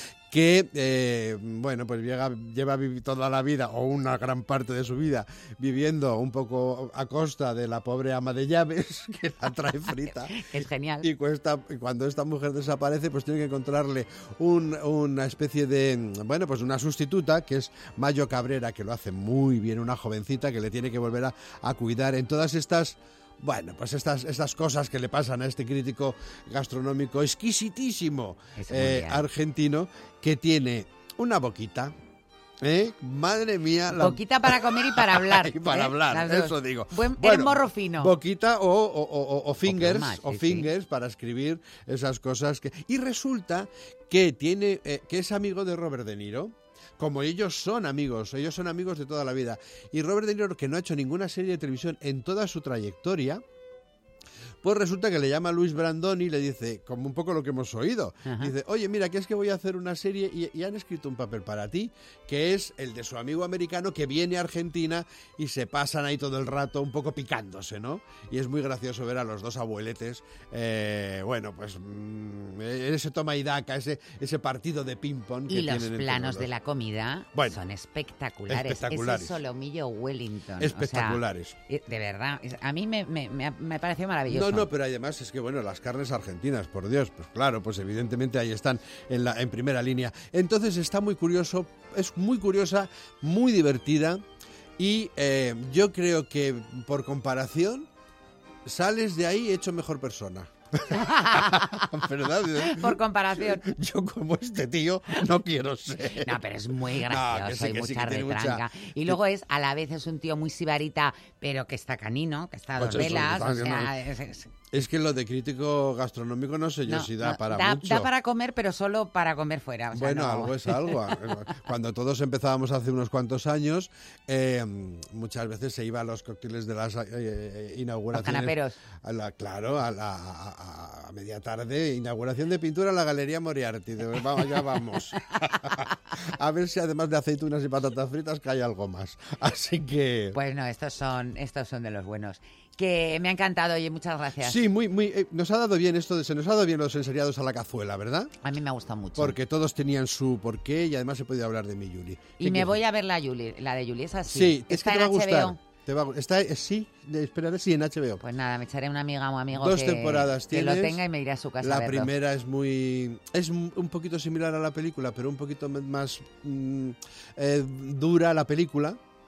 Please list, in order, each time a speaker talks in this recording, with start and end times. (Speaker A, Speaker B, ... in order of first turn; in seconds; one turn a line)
Speaker A: 0.3-10.3
Speaker B: 9.9-11.1
Speaker A: 11.0-31.9
Speaker B: 28.6-29.2
Speaker A: 32.6-53.4
Speaker B: 33.9-38.1
Speaker B: 39.6-40.7
Speaker A: 54.6-76.5
Speaker B: 58.2-58.5
Speaker B: 75.5-84.7
Speaker A: 77.3-77.6
Speaker A: 78.5-79.4
Speaker A: 80.6-81.5
Speaker A: 84.3-94.2
Speaker A: 94.8-97.9
Speaker A: 98.7-106.4
Speaker B: 100.9-101.9
Speaker B: 102.5-103.7
Speaker B: 106.2-114.5
Speaker A: 107.0-109.2
Speaker A: 112.8-114.0
Speaker A: 114.7-118.1
Speaker B: 116.9-121.3
Speaker A: 119.9-140.4
Speaker B: 128.1-128.8
Speaker B: 140.3-144.6
Speaker A: 144.4-148.3
Speaker B: 148.4-149.4
Speaker A: 149.2-152.8
Speaker B: 152.4-155.6
Speaker A: 154.3-158.2
Speaker B: 158.2-162.1
Speaker A: 159.5-161.0
Speaker A: 161.6-169.0